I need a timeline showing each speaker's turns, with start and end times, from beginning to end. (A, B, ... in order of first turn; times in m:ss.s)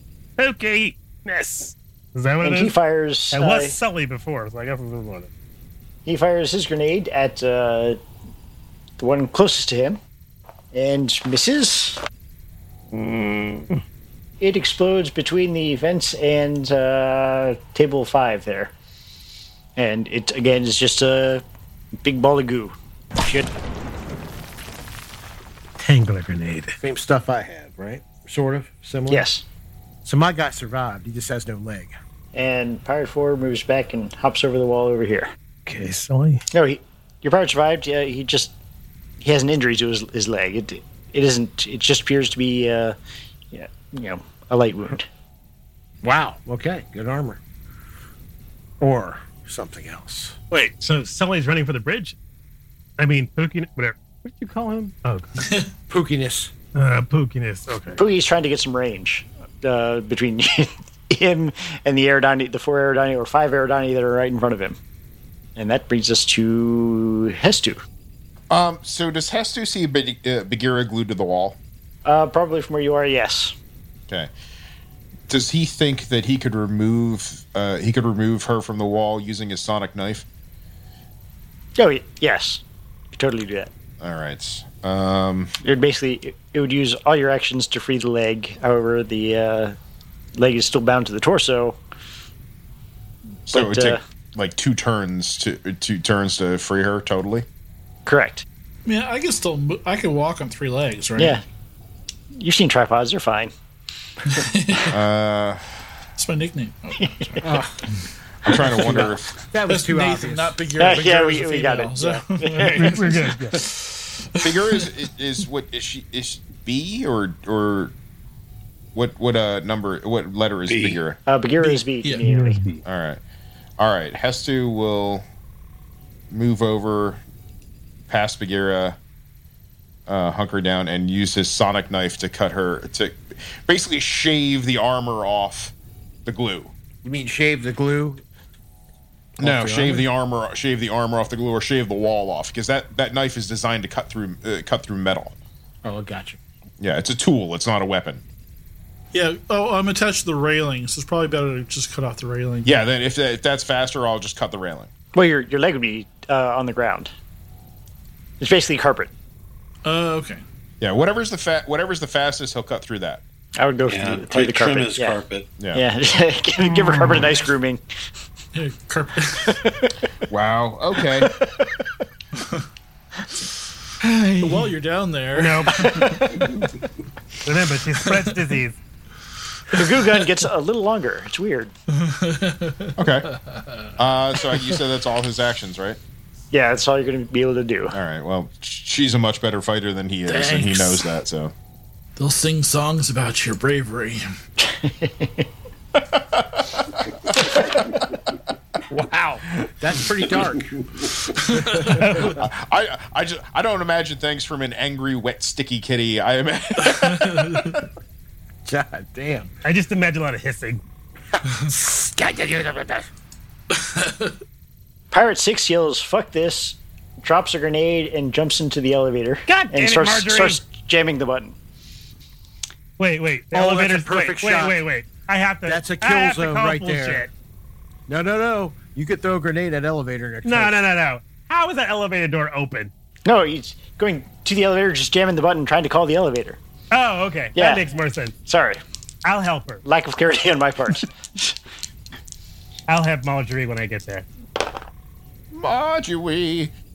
0:00.4-0:02.7 A
0:02.4-0:03.8 B
0:03.3-0:05.3 A
0:06.0-0:08.0 B
0:09.0-0:10.0 B
0:10.7-0:12.0 B
0:12.9-0:13.8 A
0:14.4-0:18.7 B
0:19.8-0:21.4 B
0:22.0-0:23.5 B
0:25.8-0:26.8 A
0:26.8-0:29.2 C
0:29.1-0:29.4 B
0:30.0-0:31.9 C
0:32.3-0:35.3 B
0:35.6-0:36.4 A
0:36.5-0:38.5 B
0:39.2-0:43.0 B
0:43.5-0:45.1 B
0:46.0-0:47.4 C
0:48.8-0:50.4 C
0:50.5-0:52.2 A
0:53.0-0:55.3 A
0:55.4-0:55.7 D
0:55.9-0:56.5 C
0:56.7-0:58.0 A
0:58.0-1:04.8 B
1:05.6-1:07.8 B
1:08.5-1:11.6 E
1:12.0-1:13.5 B
1:15.3-1:20.2 E
1:21.8-1:22.6 B
1:23.1-1:23.7 B
1:24.0-1:25.5 E
1:25.6-1:29.8 B
1:30.3-1:31.8 B
1:33.5-1:34.0 B
1:33.5-1:37.4 E
1:38.0-1:38.4 B
1:38.8-1:41.4 D
1:41.2-1:41.4 B
1:42.3-1:43.5 B
1:44.2-1:45.0 D
1:44.9-1:45.7 E
1:46.2-1:47.4 D
1:47.1-1:47.4 B
1:47.4-1:47.8 C
1:48.4-1:49.4 E
1:48.7-1:50.5 C
1:49.7-1:54.9 D
1:50.8-1:53.1 B
1:52.7-1:53.6 A
1:54.4-1:57.9 E
1:58.9-2:01.2 E
2:00.7-2:01.0 F
2:01.2-2:02.6 B
2:01.6-2:02.2 D
2:02.2-2:02.8 A
2:02.8-2:03.2 E
2:03.8-2:05.2 E
2:06.3-2:07.2 E
2:08.1-2:09.0 E
2:10.1-2:15.7 E
2:16.2-2:16.7 E
2:17.0-2:18.2 C
2:19.4-2:20.1 C
2:19.4-2:25.3 E
2:25.8-2:26.4 C
2:26.8-2:28.2 E
2:29.1-2:32.8 D
2:32.6-2:34.9 E
2:35.1-2:37.1 B
2:38.4-2:39.1 B
2:39.8-2:40.4 D
2:40.8-2:43.2 E
2:43.6-2:45.2 B
2:43.8-2:45.5 F
2:45.6-2:45.8 E
2:45.7-2:47.8 B
2:47.0-2:47.3 D
2:48.5-2:49.6 D
2:49.3-2:49.9 B
2:50.3-2:51.3 E
2:51.2-2:51.9 B
2:52.4-2:52.6 D
2:54.0-2:56.6 D
2:55.3-2:55.9 A
2:55.7-2:56.5 B
2:57.4-2:58.8 A
2:58.0-2:58.4 D
2:59.7-3:01.7 B
3:01.9-3:04.0 D
3:03.0-3:03.3 E
3:04.0-3:06.0 E
3:06.5-3:08.0 B
3:07.9-3:11.5 E
3:10.2-3:11.1 D
3:12.2-3:14.2 D
3:14.6-3:15.4 B
3:16.0-3:17.7 E
3:18.9-3:20.7 C
3:21.2-3:22.1 D
3:21.5-3:22.4 C
3:21.9-3:22.4 A
3:22.3-3:27.8 E
3:26.8-3:27.8 D
3:28.6-3:29.5 C
3:29.6-3:30.8 A
3:31.6-3:33.1 C
3:33.7-3:34.3 D
3:35.1-3:41.5 B
3:39.5-3:40.6 A
3:43.0-3:47.3 A
3:43.5-3:44.8 C
3:45.6-3:47.3 C
3:48.1-3:50.8 C
3:50.4-3:52.9 A
3:53.2-3:56.6 B
3:56.9-3:58.3 A
3:57.6-3:57.8 B
3:58.4-3:58.8 B
3:59.2-3:59.8 A
3:59.8-4:01.6 B
4:02.9-4:04.2 A
4:05.5-4:06.7 E